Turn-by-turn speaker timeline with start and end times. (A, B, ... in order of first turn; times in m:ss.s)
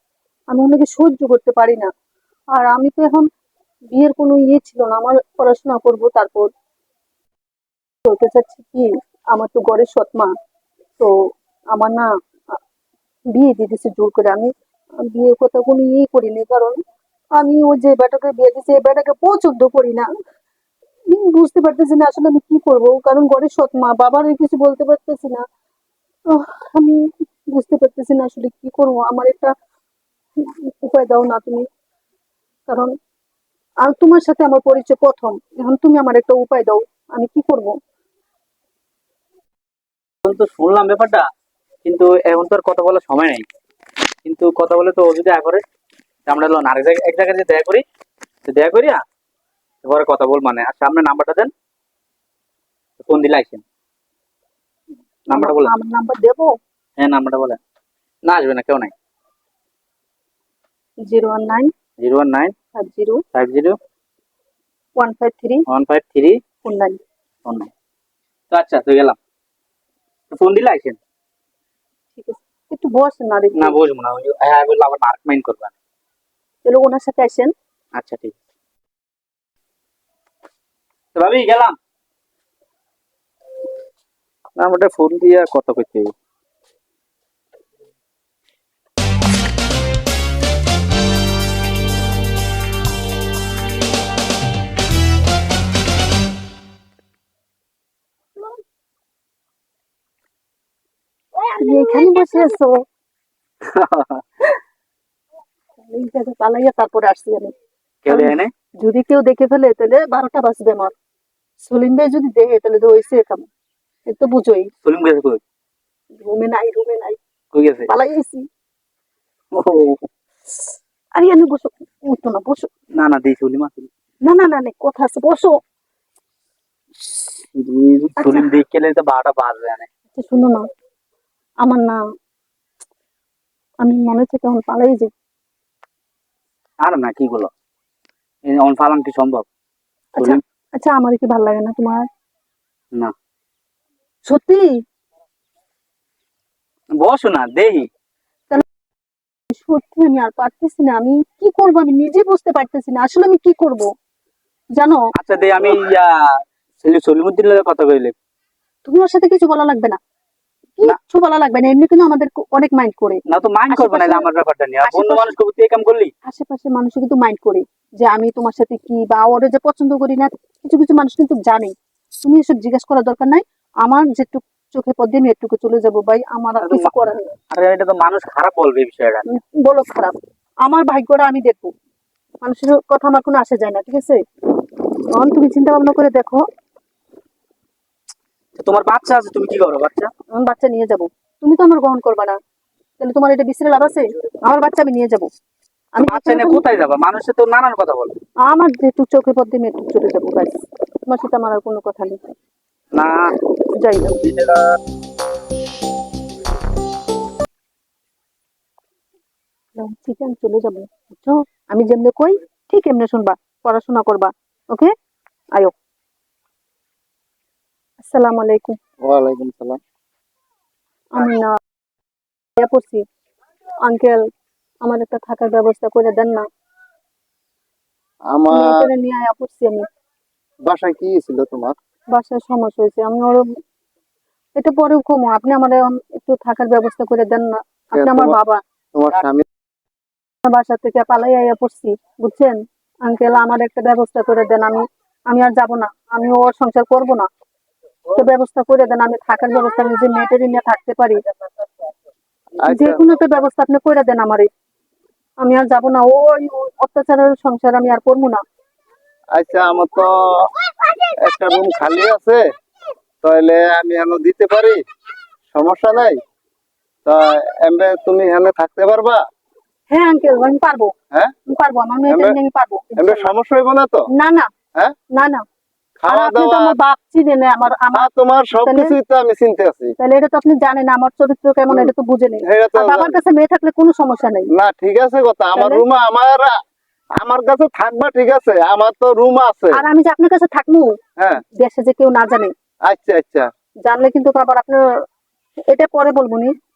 0:00.5-0:01.9 A
0:02.5-0:03.3 A
0:03.9-0:06.5 A
0:08.0-0:10.3 A
0:11.7-0:12.6 A
0:13.3-0:14.5 A
0:15.0-0:16.8 A
0:17.3-0:20.0 A
0:21.1-0:25.4 A
0:26.3-0:29.5 A
0:30.4-0:31.6 A
0:33.8-0:37.7 A
0:40.2-0:41.3 B
0:41.8-0:43.4 B
0:44.2-0:45.6 B
0:46.3-0:47.8 B
0:48.4-0:49.0 B
0:49.8-0:51.5 B
0:53.0-0:53.6 B
0:55.3-0:55.7 B
0:55.3-0:56.5 A
0:57.0-0:57.6 B
0:58.2-0:58.9 B
1:01.0-1:01.7 A
1:02.0-1:02.5 B
1:02.7-1:03.2 A
1:03.3-1:03.8 B
1:05.0-1:05.6 A
1:05.7-1:06.4 B
1:06.6-1:07.0 A
1:08.5-1:09.2 B
1:10.3-1:11.0 B
1:12.1-1:13.8 A
1:13.6-1:15.7 B
1:16.6-1:17.5 A
1:17.9-1:18.3 B
1:21.1-1:21.8 B
1:24.6-1:26.1 B
1:41.5-1:42.8 A
1:43.7-1:44.4 B
1:45.9-1:47.5 A
1:48.0-1:48.5 B
1:48.1-1:50.9 A
1:51.6-1:53.5 A
1:54.1-1:54.7 A
1:54.8-1:55.4 B
1:56.1-1:57.2 A
1:57.5-1:57.9 B
1:57.9-1:58.4 A
1:59.5-2:00.0 B
2:01.1-2:02.7 A
2:03.0-2:03.9 B
2:04.2-2:05.5 A
2:07.5-2:09.9 B
2:08.2-2:08.5 A
2:10.1-2:10.6 A
2:11.6-2:12.0 A
2:13.8-2:15.1 A
2:16.8-2:17.5 B
2:18.5-2:19.4 B
2:20.1-2:22.0 A
2:24.2-2:24.7 A
2:27.0-2:27.9 B
2:29.5-2:33.9 A
2:34.8-2:35.0 A
2:35.1-2:38.1 B
2:38.8-2:40.0 A
2:40.8-2:44.3 A
2:43.3-2:46.1 B
2:44.8-2:45.3 A
2:46.2-2:57.3 A
2:56.6-2:56.9 B
2:57.5-2:59.2 B
2:59.3-3:01.7 A
3:02.4-3:04.2 A
3:05.1-3:06.4 A
3:08.6-3:10.1 B
3:10.3-3:12.4 A
3:13.0-3:15.3 A
3:15.9-3:16.7 A
3:16.0-3:18.2 B
3:18.4-3:22.2 A
3:22.9-3:23.3 B
3:23.8-3:24.2 A
3:24.2-3:24.8 B
3:29.8-3:34.9 A
3:38.0-3:38.8 A
3:39.0-3:39.8 C
3:41.1-3:41.6 A
3:42.6-3:43.0 A
3:43.8-3:44.2 A
3:44.8-3:46.4 A
3:48.3-3:48.9 C
3:48.5-3:49.8 A
3:50.6-3:51.8 C
3:52.1-3:53.4 A
3:54.6-3:58.6 A
3:57.9-3:58.4 C
3:58.9-3:59.4 C
4:00.4-4:07.3 A
4:08.1-4:11.2 A
4:12.6-4:13.0 C
4:12.6-4:14.5 A
4:15.4-4:18.4 A
4:19.3-4:20.3 C
4:21.2-4:22.4 C
4:23.2-4:24.8 C
4:25.5-4:26.2 C
4:27.0-4:29.2 C
4:29.9-4:30.9 A
4:31.5-4:33.3 A
4:32.1-4:32.4 C
4:33.0-4:34.1 C
4:34.1-4:34.5 A
4:35.1-4:35.4 A
4:36.0-4:36.7 C
4:36.1-4:38.9 A
4:37.9-4:39.9 C
4:40.0-4:44.5 A
4:42.4-4:43.2 C
4:44.5-4:46.6 C
4:45.6-4:45.8 A
4:47.2-4:49.8 C
4:49.7-4:52.5 A
4:52.9-4:53.5 C
4:53.8-4:54.8 A
4:55.7-4:56.5 A